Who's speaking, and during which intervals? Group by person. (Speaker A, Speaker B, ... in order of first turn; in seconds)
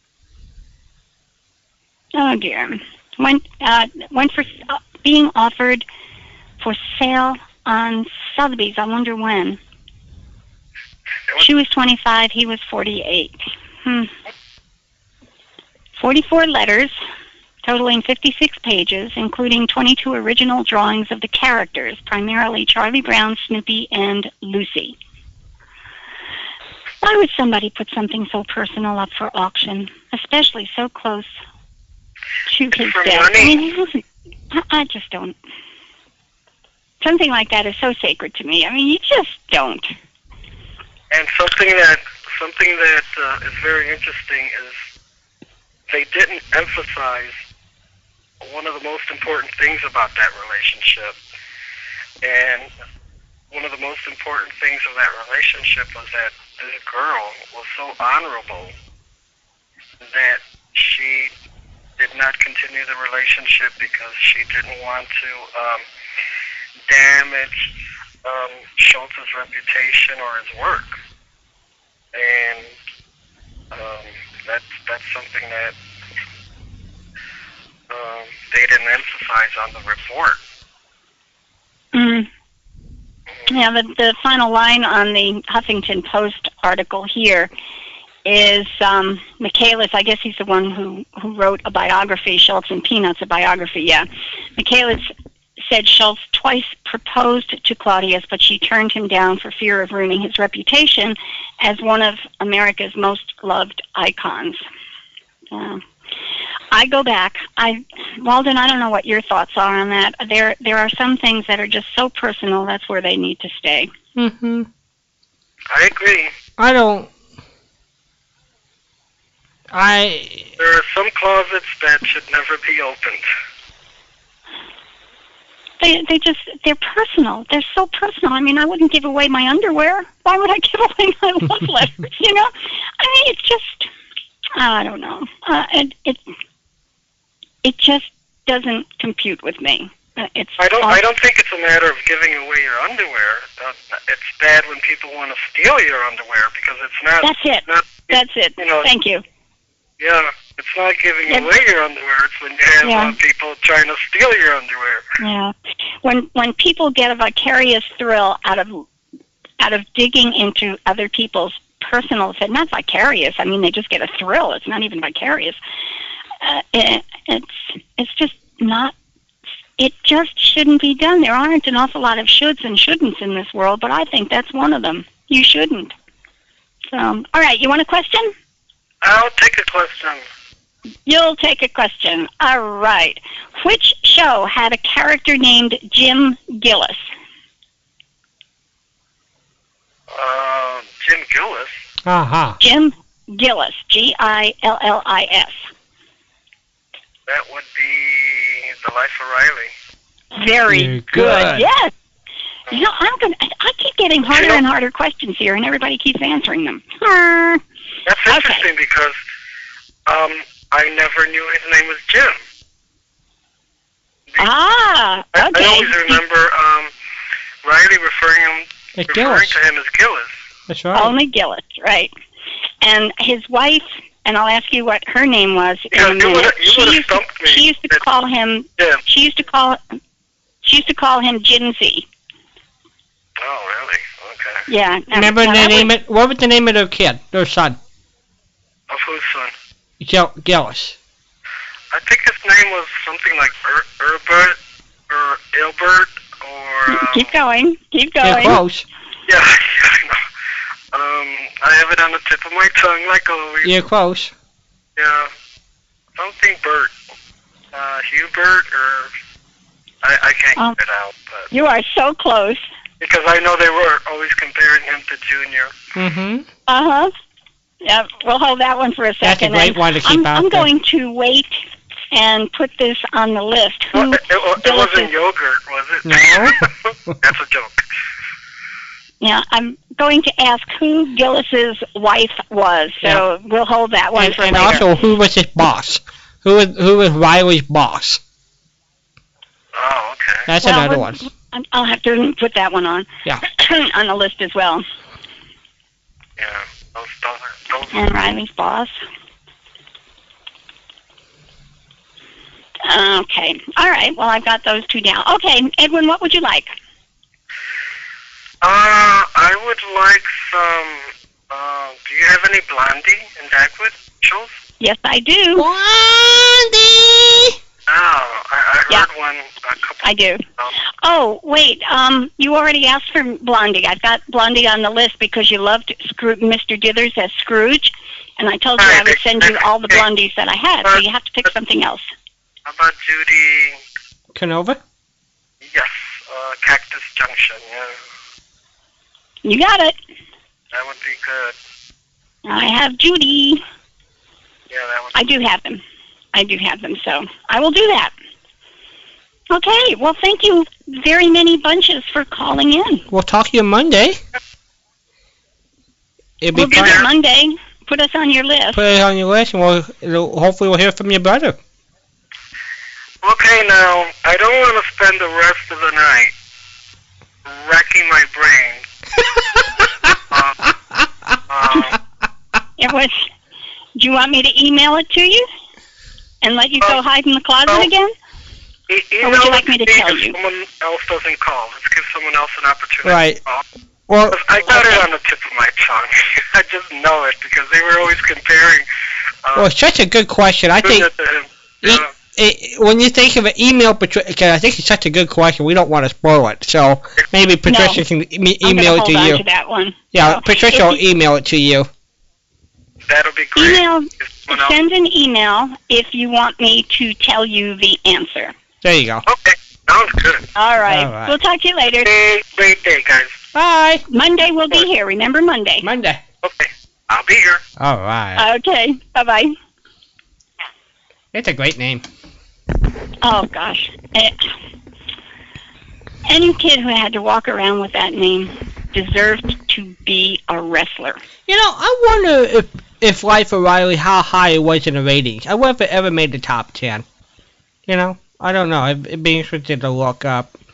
Speaker A: 2.1-5.8, 6.6-9.6, 11.4-14.1, 16.0-16.9, 17.6-24.9, 27.0-31.4, 32.5-35.4, 37.0-39.9, 81.9-82.3, 83.5-87.5, 88.2-104.6, 105.5-105.8, 106.7-113.9, 125.8-133.9, 134.6-136.2, 137.6-141.0, 147.2-149.2, 152.8-153.1, 155.2-158.8, 159.6-165.6, 166.4-168.9, 169.8-175.9, 176.9-178.3, 181.1-187.0, 192.6-195.6, 200.3-201.9, 202.7-207.6, 208.3-208.7, 214.4-216.2, 220.9-222.1, 222.8-229.8, 230.6-232.1, 234.7-235.9, 246.9-248.6, 261.5-262.6, 266.7-267.1, 267.8-275.1, 279.2-284.9, 290.6-294.8, 297.9-298.9, 302.8-306.7, 314.8-315.6, 320.0-320.4, 321.0-332.1, 339.4-339.9, 342.4-343.6, 345.1-345.8, 346.3-348.1, 349.5-353.1, 356.5-358.8, 372.8-373.3, 373.9-375.5, 376.4-378.1, 379.2-380.3, 397.6-398.0, 398.6-401.0, 403.6-408.5, 410.5-412.1, 414.1-415.9, 418.4-419.5, 423.2-424.5, 426.2-431.2
Speaker B: 32.7-33.6, 41.1-44.8, 45.9-47.4, 48.4-51.2, 52.2-52.7, 53.5-58.7, 60.0-61.3, 62.0-65.8, 66.9-67.7, 68.2-71.0, 72.1-72.7, 73.7-75.8, 77.9-80.4, 115.7-116.3, 120.6-123.2, 140.6-148.9, 150.0-155.1, 179.0-180.2, 190.1-191.7, 197.3-199.7, 204.3-204.6, 208.1-209.2, 210.1-212.4, 215.3-216.9, 217.6-220.3, 225.9-228.0, 233.4-234.7, 238.9-239.5, 241.9-244.6, 245.1-247.3, 249.3-250.2, 250.9-253.7, 254.9-255.3, 256.1-256.9, 257.7-259.1, 260.0-261.5, 263.0-265.7, 273.9-277.8, 289.7-290.5, 296.4-298.1, 308.6-314.5, 317.9-320.1, 328.8-330.0, 332.6-333.8, 335.6-338.0, 340.7-341.6, 344.7-345.2, 356.7-357.1, 363.2-366.3, 367.4-368.8, 370.3-370.7, 371.5-372.0, 378.9-383.6, 384.3-388.8, 390.8-392.1, 403.1-404.8, 409.2-410.5, 412.0-413.4, 416.4-417.6
Speaker C: 114.2-114.7, 116.6-117.1, 119.7-120.5, 192.1-192.6, 200.7-201.7, 219.0-219.6, 220.7-221.1, 235.1-237.8, 240.0-240.9, 248.2-248.8, 253.6-254.3, 265.9-266.5, 269.2-270.7, 276.1-276.7, 284.1-288.2, 290.4-291.2, 315.6-317.6, 334.3-334.8, 353.1-354.2, 356.4-357.0, 358.7-361.6, 383.0-383.4, 384.1-385.0, 389.5-391.1, 391.8-399.4, 400.1-401.9, 408.8-409.2, 410.9-411.3, 413.5-414.0, 415.8-416.2, 417.8-418.4, 421.3-422.0, 431.5-437.0, 437.9-440.5